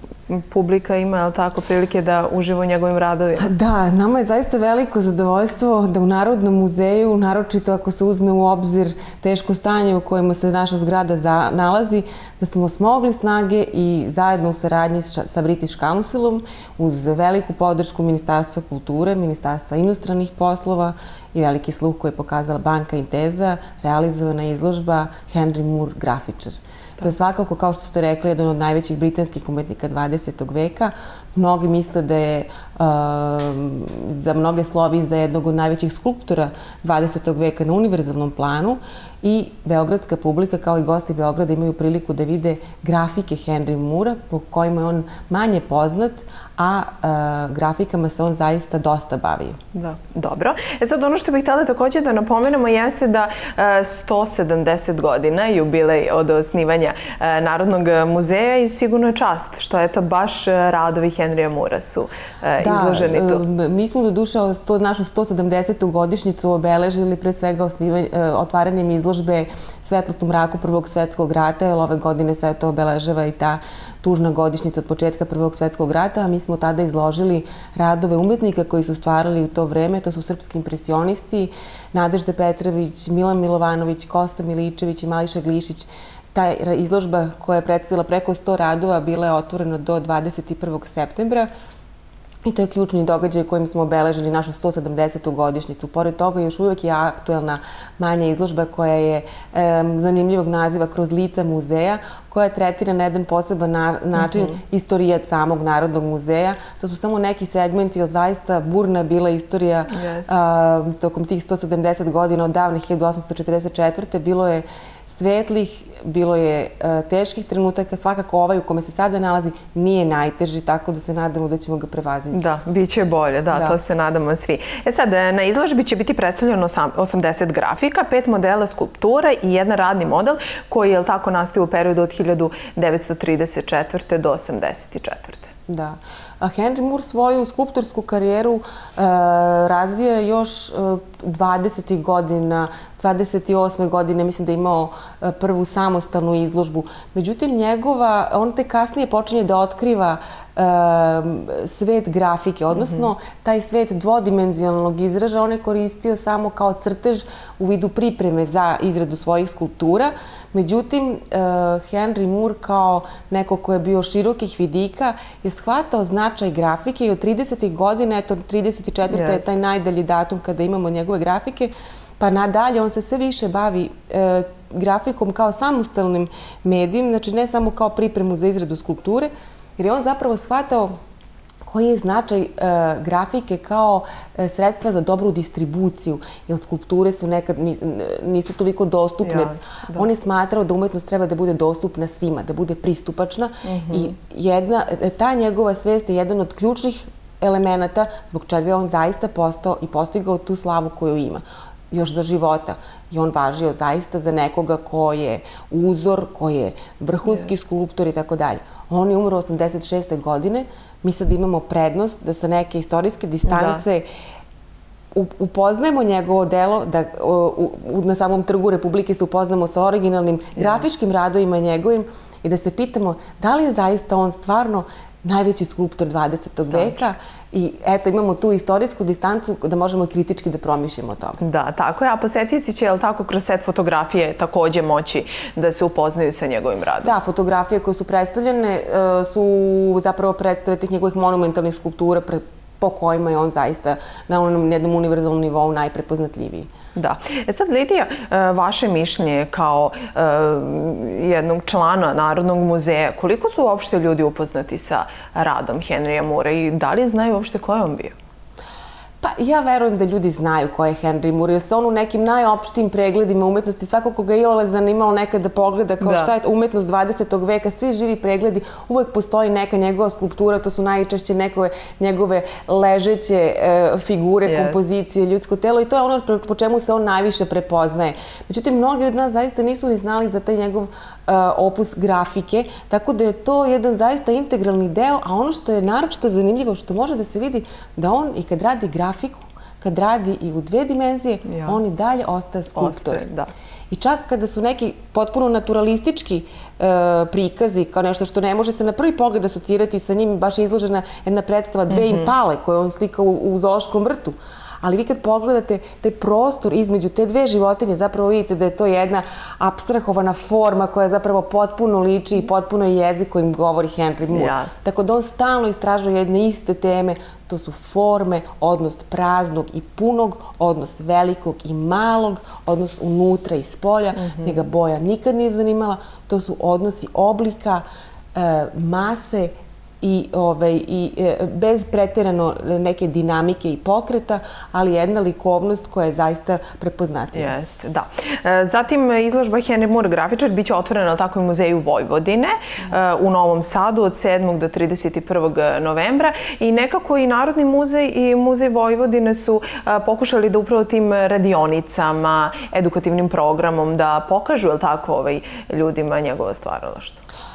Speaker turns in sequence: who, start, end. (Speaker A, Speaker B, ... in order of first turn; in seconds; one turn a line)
Speaker A: 0.3-3.5
Speaker B: 3.4-49.6
Speaker A: 49.7-63.4
Speaker B: 62.6-91.5
Speaker B: 92.5-122.5
Speaker A: 104.2-104.6
Speaker A: 109.9-110.3
Speaker A: 122.3-135.5
Speaker B: 123.5-123.8
Speaker B: 135.7-180.9
Speaker A: 152.7-153.1
Speaker A: 169.1-169.5
Speaker B: 181.7-214.1
Speaker A: 189.2-190.1
Speaker A: 193.7-194.1
Speaker A: 213.5-213.8
Speaker B: 215.1-231.4
Speaker A: 226.7-227.0
Speaker A: 231.4-237.1
Speaker B: 237.0-246.7
Speaker A: 246.9-258.1
Speaker B: 259.2-293.2
Speaker A: 266.0-266.3
Speaker A: 274.5-274.8
Speaker A: 291.5-291.8
Speaker A: 292.8-293.5
Speaker B: 293.9-327.8
Speaker A: 301.9-302.3
Speaker A: 314.3-314.8
Speaker A: 324.1-324.6
Speaker B: 328.4-337.5
Speaker A: 337.3-357.2